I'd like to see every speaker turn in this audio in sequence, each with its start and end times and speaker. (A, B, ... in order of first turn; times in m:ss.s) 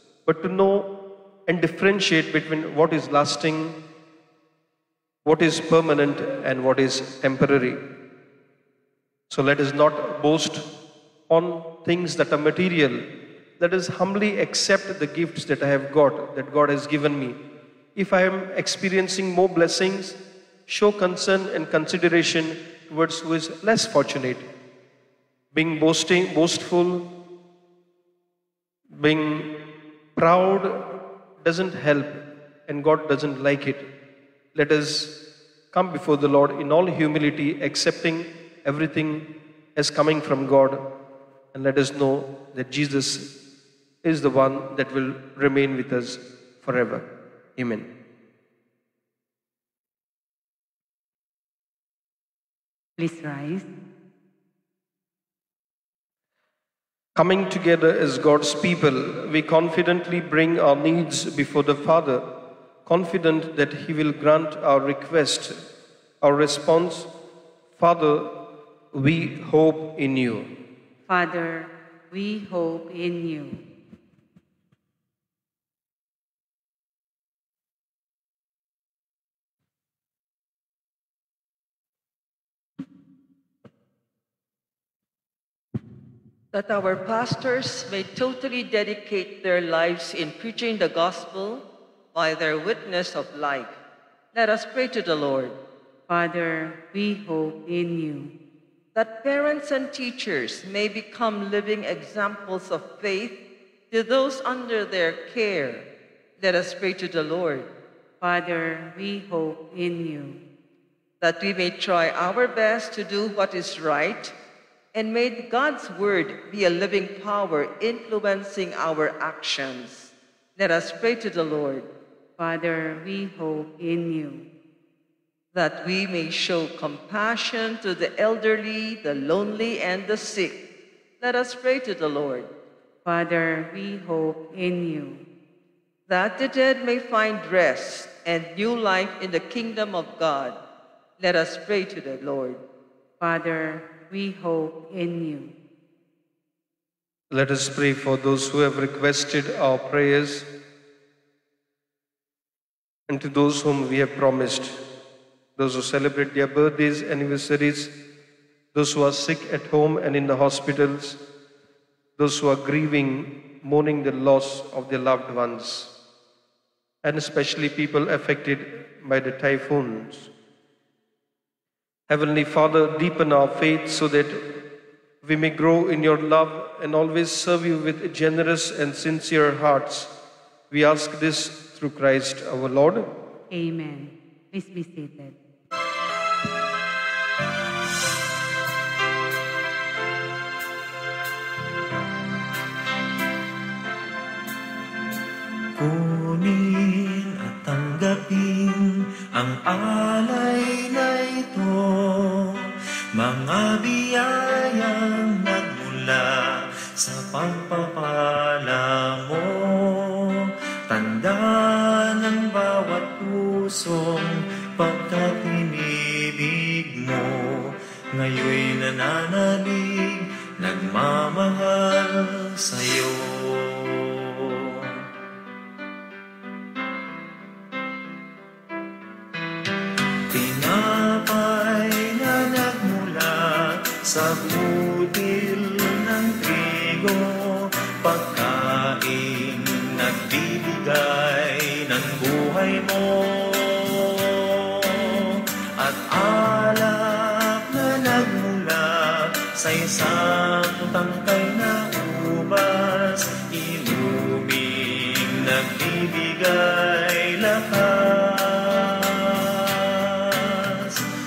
0:00.2-0:03.8 A
0:05.2-0:07.8 A
0:09.3-0:10.7 A
0:11.3-0:13.0 A
0:13.6-0:17.4 A
0:17.9-0:24.4 A
0:25.5-0:27.1 A
0:28.9-0:29.6 A
0:30.2-0:33.9 A
0:34.5-0:35.2 A
0:35.7-0:40.9 A
0:41.5-0:43.3 A
0:44.0-0:47.9 A
0:53.0-0:53.7 B
0:57.1-1:02.3 A
1:02.8-1:05.5 A
1:06.2-1:07.1 A
1:07.8-1:10.5 A
1:11.1-1:13.6 B
1:26.5-1:33.8 C
1:34.3-1:35.6 C
1:36.1-1:38.3 B
1:38.9-1:43.4 C
1:43.9-1:45.9 C
1:46.4-1:47.7 C
1:48.2-1:50.4 B
1:51.2-1:54.3 C
1:54.9-2:01.9 C
2:02.4-2:04.5 B
2:05.5-2:10.6 C
2:11.2-2:12.5 C
2:13.0-2:15.2 B
2:16.1-2:20.6 C
2:21.2-2:22.6 C
2:23.2-2:25.5 B
2:27.3-2:30.5 A
2:33.1-2:34.8 A
2:35.6-2:38.0 A
2:38.7-2:41.2 A
2:42.2-2:45.9 A
2:47.0-2:50.3 A
2:52.1-2:54.6 A
2:55.2-3:00.1 A
3:00.7-3:03.1 A
3:03.5-3:05.4 B
3:15.8-3:22.6 D
3:23.2-3:26.3 D
3:27.0-3:44.9 D
3:50.3-4:21.0 D